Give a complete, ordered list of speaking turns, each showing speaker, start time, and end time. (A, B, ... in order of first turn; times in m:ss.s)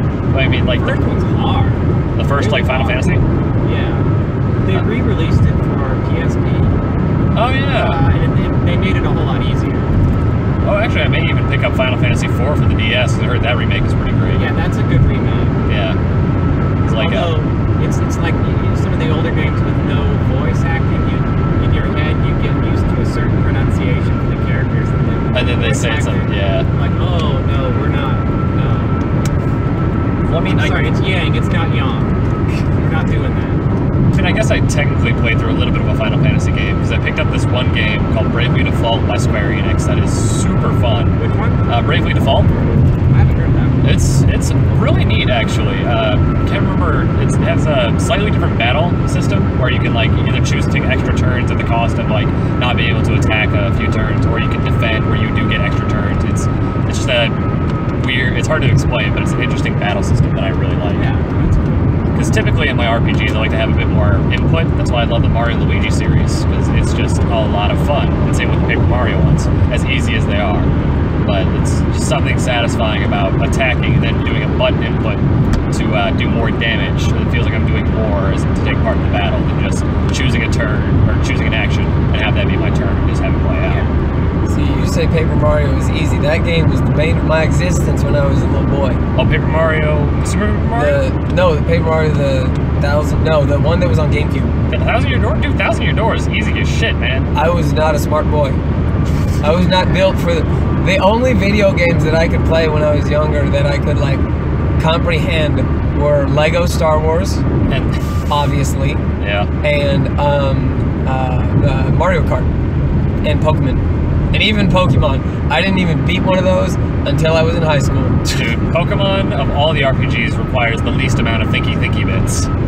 0:00.3-0:01.0 A
0:00.7-0:03.1 B
0:02.2-0:03.2 A
0:03.6-0:06.8 B
0:07.3-0:08.0 A
0:07.7-0:09.9 B
0:10.6-0:14.5 A
0:14.3-0:15.6 B
0:15.7-0:16.0 A
0:16.8-0:29.1 B
0:16.9-0:17.4 A
0:25.3-0:26.7 A
0:30.3-0:30.9 A
0:30.4-0:32.2 B
0:32.7-0:33.6 B
0:34.1-0:42.6 A
0:41.2-0:44.0 B
0:43.8-0:57.4 A
0:58.0-1:01.1 A
1:00.9-1:02.1 B
1:02.1-1:23.9 A
1:23.6-1:24.0 B
1:24.5-1:29.0 C
1:29.2-1:31.0 A
1:30.8-1:34.5 C
1:34.7-1:37.3 A
1:37.3-1:38.6 C
1:39.4-1:44.2 C
1:44.8-1:47.4 C
1:47.7-1:48.0 A
1:48.3-1:49.0 C
1:49.2-1:49.5 A
1:49.6-1:52.5 C
1:53.2-1:58.4 C
1:58.3-2:02.5 A